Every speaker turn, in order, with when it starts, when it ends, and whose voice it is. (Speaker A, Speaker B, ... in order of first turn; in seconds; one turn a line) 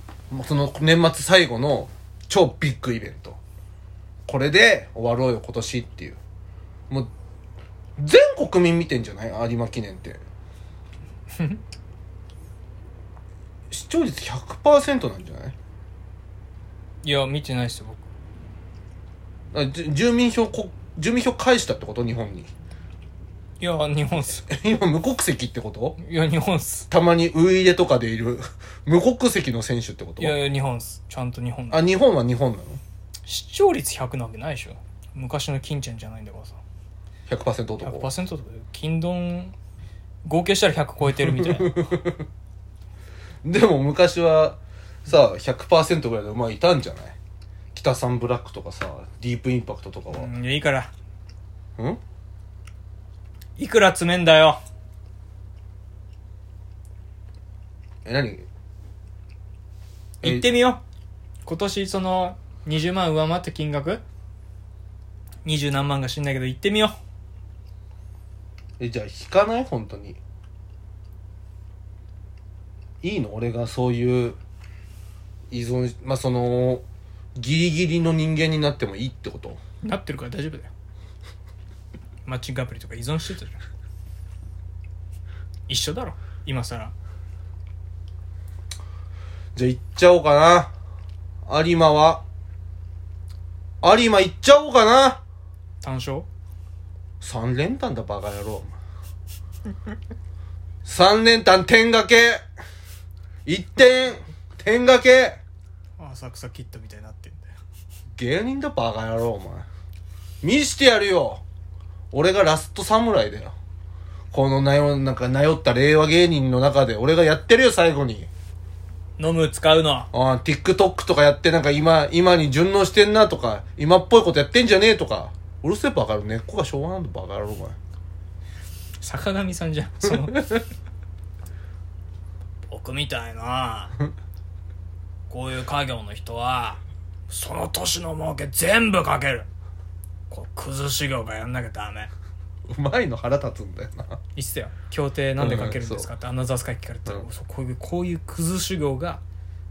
Speaker A: 0.3-3.4
Speaker A: 4.3-6.2
Speaker A: 8.0-10.2
Speaker A: 13.7-15.6
Speaker B: 17.0-18.1
Speaker A: 19.5-22.5
Speaker B: 23.6-24.5
Speaker A: 24.4-26.0
Speaker B: 26.0-26.9
Speaker A: 26.9-30.4
Speaker B: 30.2-31.9
Speaker A: 31.7-32.8
Speaker B: 33.3-36.6
Speaker A: 37.3-38.1
Speaker B: 37.8-39.5
Speaker B: 40.2-41.9
Speaker A: 41.1-42.2
Speaker A: 43.4-47.1
Speaker A: 47.7-50.3
Speaker B: 50.1-50.9
Speaker B: 53.6-54.6
Speaker A: 58.0-58.5
Speaker B: 60.2-60.8
Speaker A: 60.2-60.6
Speaker B: 61.4-64.0
Speaker B: 65.4-67.0
Speaker A: 68.8-70.2
Speaker A: 73.0-74.4
Speaker A: 75.5-76.8
Speaker A: 77.3-79.6
Speaker B: 79.8-80.7
Speaker B: 82.2-83.6
Speaker B: 85.7-86.9
Speaker A: 89.5-90.7
Speaker A: 91.5-92.2
Speaker A: 93.8-95.2
Speaker B: 95.8-96.3
Speaker A: 97.2-98.7
Speaker A: 100.8-102.4
Speaker A: 103.5-105.4
Speaker B: 106.0-107.5
Speaker A: 108.2-109.7
Speaker A: 110.4-111.4
Speaker A: 112.1-113.5
Speaker A: 114.3-118.3
Speaker B: 119.2-120.1
Speaker A: 120.1-127.8
Speaker B: 129.0-130.6
Speaker B: 132.7-133.9
Speaker B: 135.3-139.5
Speaker B: 140.3-142.1
Speaker A: 142.7-144.2
Speaker B: 144.3-149.2
Speaker A: 145.4-146.1